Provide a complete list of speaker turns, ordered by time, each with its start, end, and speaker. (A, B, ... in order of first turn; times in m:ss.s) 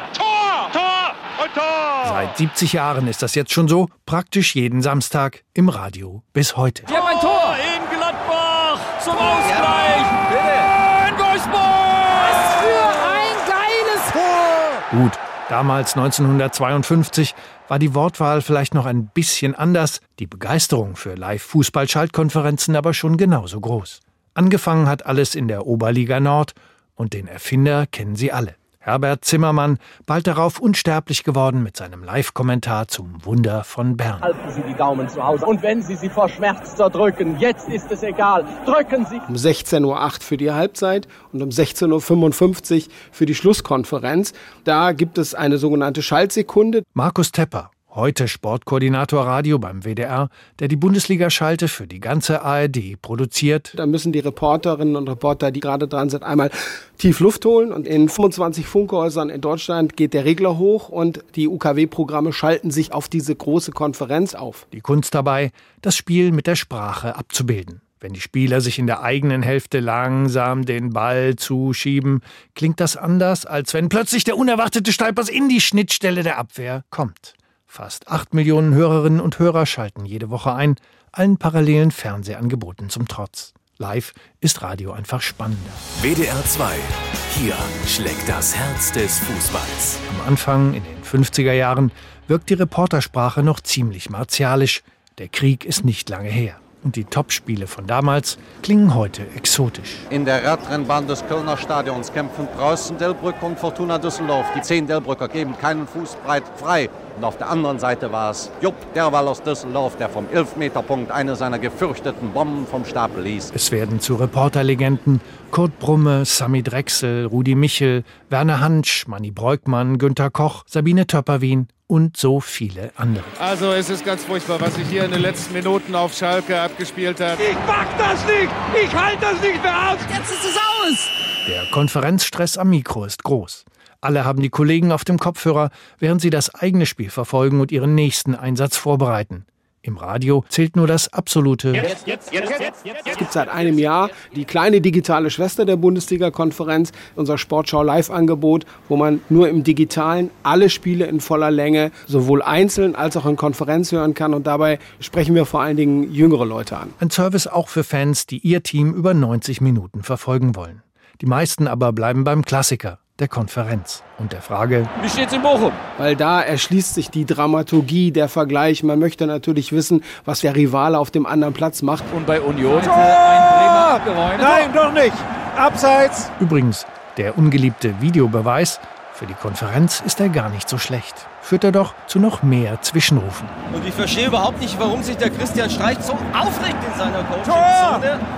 0:00.2-0:00.6 A
0:02.0-0:07.0 B
0:06.9-0:14.2 C
0:14.9-0:34.3 B
0:34.2-0:39.2 D
0:39.3-0:46.8 E
0:47.0-0:53.8 B
0:53.8-1:04.6 E
1:04.7-1:25.8 B
1:26.0-1:30.0 F
1:30.1-1:40.1 B
1:40.1-1:53.5 G
1:53.5-2:03.4 B
2:03.4-2:11.1 A
2:11.5-2:22.0 B
2:22.4-2:37.0 E
2:37.0-2:44.9 B
2:45.0-2:45.8 C
2:46.0-2:52.1 E
2:52.1-2:54.7 C
2:52.8-2:56.3 A
2:56.4-3:03.5 B
3:03.7-3:08.2 H
3:07.4-3:08.1 A